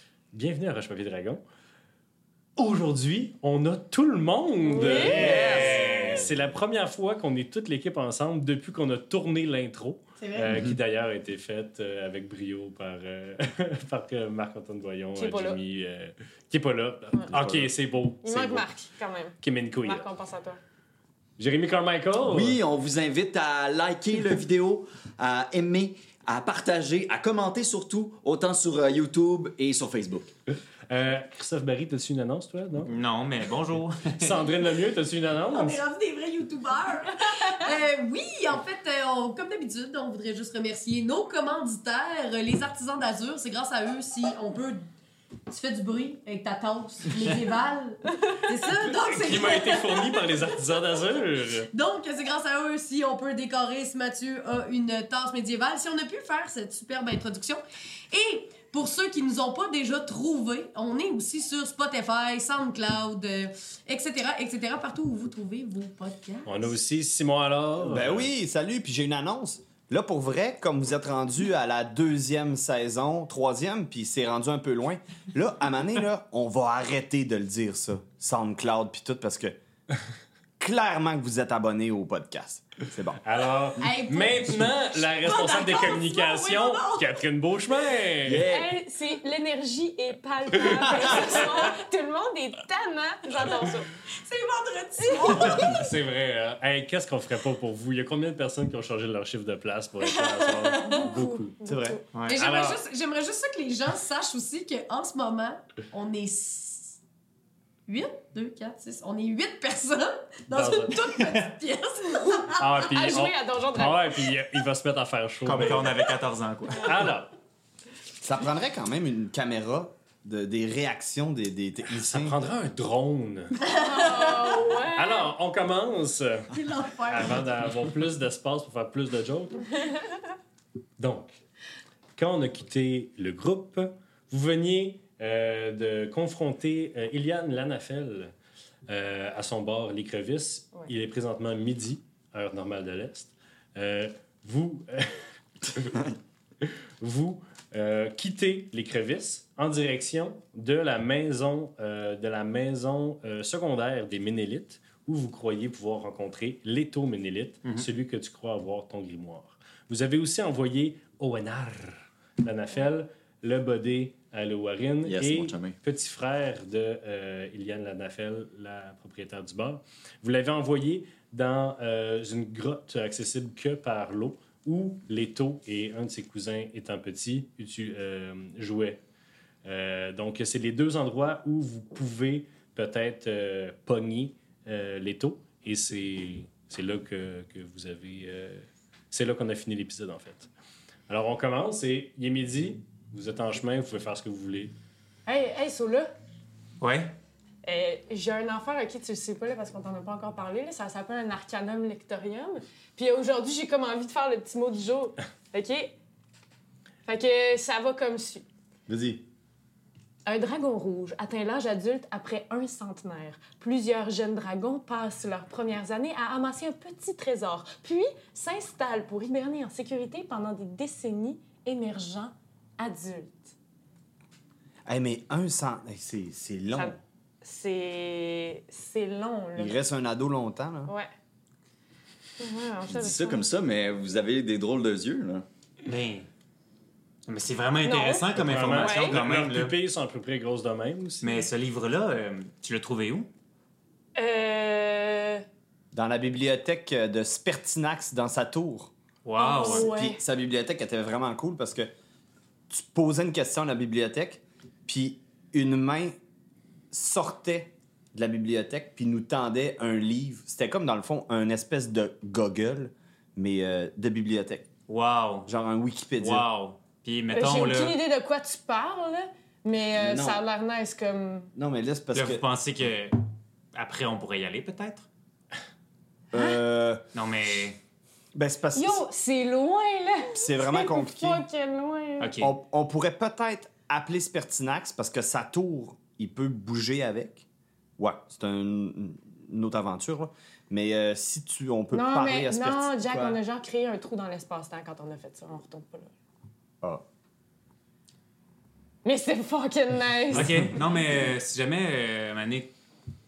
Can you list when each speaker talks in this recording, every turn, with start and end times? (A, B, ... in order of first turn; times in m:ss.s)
0:00.3-0:01.4 A
0:02.6-0:18.7 A
0:04.6-0:05.4 B
0:05.0-0:06.2 C
0:05.2-0:06.0 D
0:10.2-0:10.5 E
0:15.1-0:15.6 B
0:17.3-0:17.7 D
0:18.2-0:20.6 B
0:19.4-0:20.0 A
0:21.4-0:22.6 A
0:22.2-0:30.3 F
0:30.9-0:32.9 A
0:32.9-0:34.5 C
0:34.1-0:35.8 A
0:35.5-0:44.8 E
0:45.5-0:51.0 E
0:48.8-0:51.7 A
0:51.7-1:06.7 E
1:06.4-1:08.3 A
1:07.8-1:19.5 D
1:20.6-1:23.2 D
1:23.2-1:28.4 A
1:23.8-1:27.2 E
1:28.3-1:28.6 F
1:28.4-1:33.9 B
1:34.1-1:35.8 E
1:35.0-1:35.7 B
1:35.2-1:41.6 A
1:35.7-1:36.0 C
1:40.0-1:41.1 E
1:41.0-1:42.0 B
1:41.6-1:42.0 D
1:42.1-1:42.8 C
1:42.2-1:47.0 E
1:47.9-1:52.8 E
1:50.5-1:51.2 A
1:52.6-1:55.9 A
1:52.8-1:54.3 B
1:55.4-1:57.1 C
1:56.8-1:57.3 A
1:58.2-2:02.4 D
2:02.0-2:03.6 A
2:03.6-2:04.8 E
2:03.6-2:05.3 B
2:04.9-2:09.7 A
2:06.5-2:07.5 E
2:11.0-2:11.4 A
2:12.2-2:18.3 A
2:18.9-2:26.1 A
2:26.6-2:59.0 A
2:45.0-2:45.8 F
2:59.6-3:10.5 A
3:11.1-3:14.7 A
3:15.2-3:16.1 B
3:16.8-3:17.2 C
3:17.6-3:25.9 B
3:27.0-3:28.4 B
3:28.9-3:29.2 D
3:30.2-3:43.5 B
3:44.8-3:47.0 D
3:46.7-3:49.8 B
3:49.6-3:50.9 D
3:50.8-3:51.1 B
3:52.4-3:53.4 B
3:52.9-3:55.4 F
3:55.8-3:56.3 C
3:57.2-3:59.7 C
3:57.8-3:59.2 B
3:58.4-4:01.5 A
4:01.2-4:03.3 C
4:04.2-4:05.4 B
4:05.9-4:08.9 D
4:09.2-4:09.9 C
4:09.4-4:10.1 E
4:09.4-4:10.1 B
4:09.6-4:11.9 D
4:12.7-4:16.1 D
4:16.9-4:24.7 D
4:24.9-4:25.5 C
4:25.4-4:26.4 D
4:26.2-4:28.0 C
4:27.3-4:31.5 B
4:29.9-4:30.4 D
4:31.5-4:32.4 D
4:32.1-4:33.2 C
4:33.7-4:35.1 C
4:36.3-4:37.0 D
4:36.3-4:36.6 B
4:37.1-4:37.8 C
4:38.3-4:39.0 D
4:38.7-4:42.4 B
4:40.3-4:41.4 D
4:42.2-4:42.5 C
4:42.4-4:47.4 D
4:48.0-4:53.4 D
4:51.9-4:56.1 B
4:59.0-5:00.8 B
5:00.3-5:02.7 C